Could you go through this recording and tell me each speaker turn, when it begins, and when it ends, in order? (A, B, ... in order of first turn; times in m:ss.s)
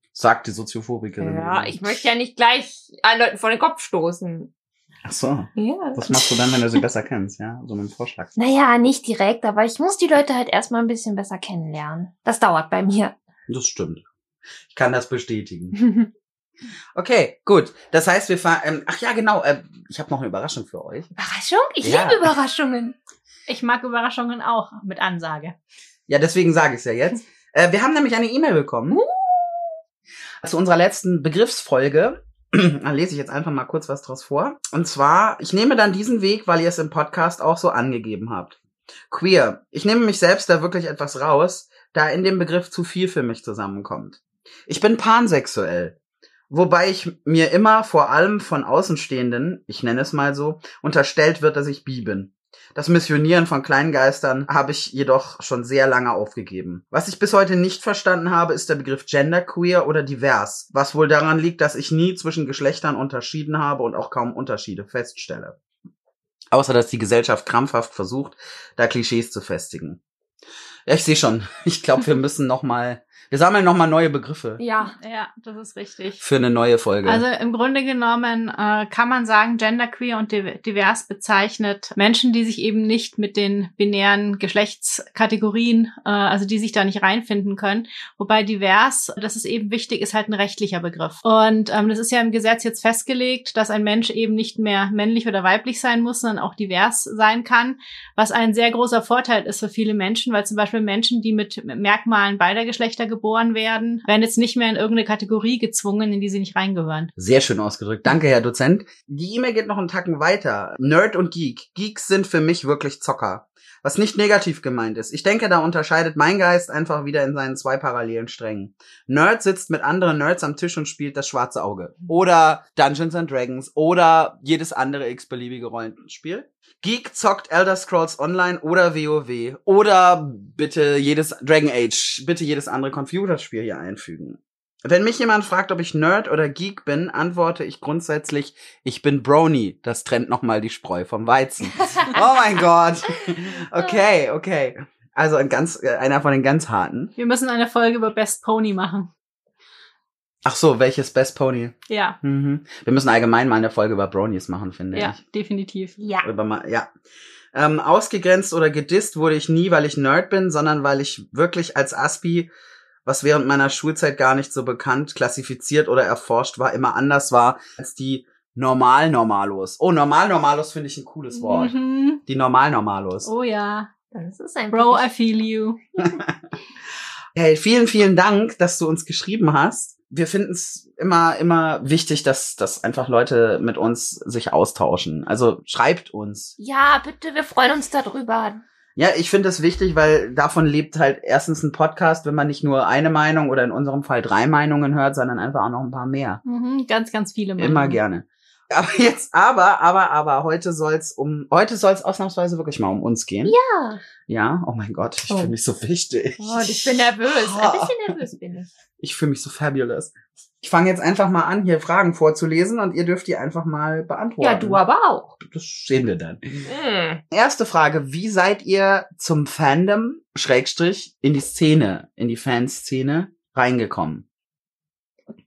0:00.1-0:02.1 A
0:01.2-0:04.5 B
0:05.0-0:08.3 A
0:05.6-0:06.6 B
0:08.4-0:13.2 B
0:13.5-0:14.0 A
0:14.7-0:15.8 A
0:15.8-0:16.1 B
0:17.0-0:21.1 A
0:21.2-0:23.0 B
0:21.8-0:22.3 A
0:23.5-0:25.6 C
0:26.1-0:29.0 A
0:28.9-0:29.8 B
0:30.4-0:38.6 A
0:39.1-0:46.0 A
0:46.5-1:05.6 A
1:06.5-1:10.0 A
1:10.9-1:14.6 A
1:14.6-1:15.0 B
1:15.0-1:16.2 C
1:16.2-1:17.2 A
1:17.0-1:47.1 C
1:47.2-2:27.1 A
2:21.8-2:22.2 B
2:27.2-2:29.1 C
2:30.4-2:35.2 A
2:31.9-2:32.2 C
2:34.9-2:36.0 C
2:36.0-2:36.3 B
2:36.2-2:36.9 A
2:37.5-2:42.5 A
2:43.0-2:51.8 A
2:51.3-2:52.2 C
2:52.3-2:53.3 A
2:53.2-2:53.9 C
2:54.1-2:55.1 B
2:54.7-2:55.8 C
2:56.0-2:56.3 A
2:57.4-3:06.6 A
3:06.6-3:08.6 B
3:09.0-3:16.4 A
3:16.4-3:18.0 C
3:17.6-3:23.6 A
3:23.4-3:24.0 B
3:24.3-3:28.1 A
3:26.4-3:28.7 B
3:29.0-3:34.8 A
3:34.4-3:35.4 B
3:35.4-3:36.6 A
3:36.6-3:37.2 B
3:37.3-3:44.2 A